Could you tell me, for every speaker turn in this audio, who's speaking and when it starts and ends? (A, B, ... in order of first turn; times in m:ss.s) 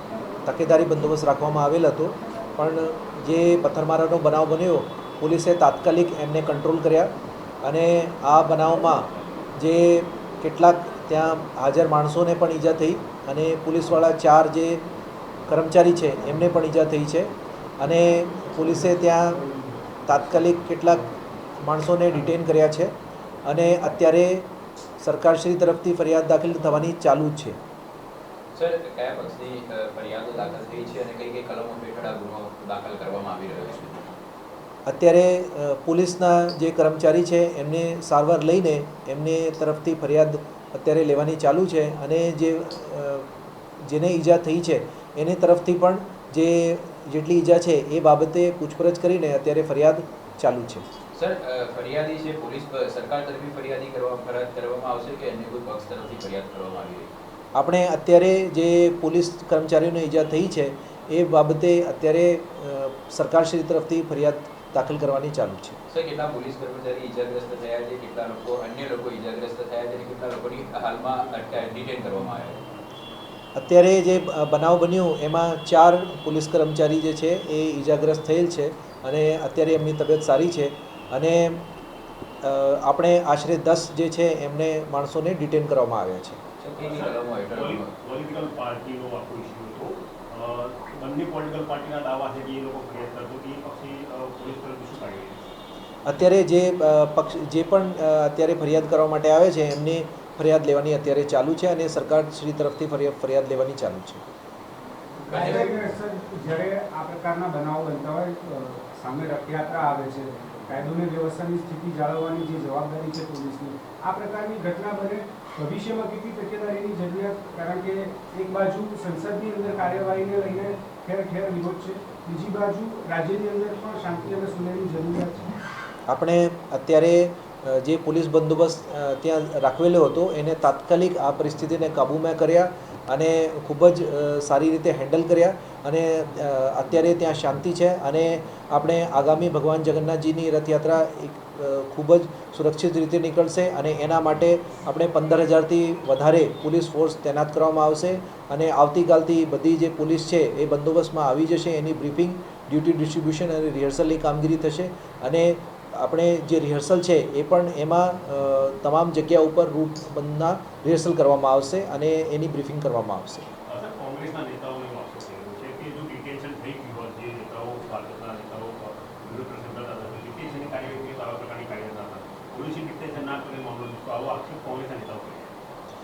0:00.4-0:07.1 A
0:07.6-0:14.8 A
0:15.5-0:19.5 A
0:20.1-0:22.9 A
0:23.4-0:27.6 A
0:28.6-0:34.1 B
0:34.9-0:43.3 A
0:43.8-0:50.9 A
0:51.1-0:57.1 B
0:57.6-1:05.8 A
1:05.9-1:12.6 B
1:13.6-1:21.6 A
1:22.4-1:26.4 A
1:26.6-1:27.9 B
1:26.8-1:35.5 C
1:36.0-1:44.2 A
1:45.3-1:45.7 B
1:45.3-2:05.6 D
2:06.1-2:43.5 A
2:43.7-2:55.5 C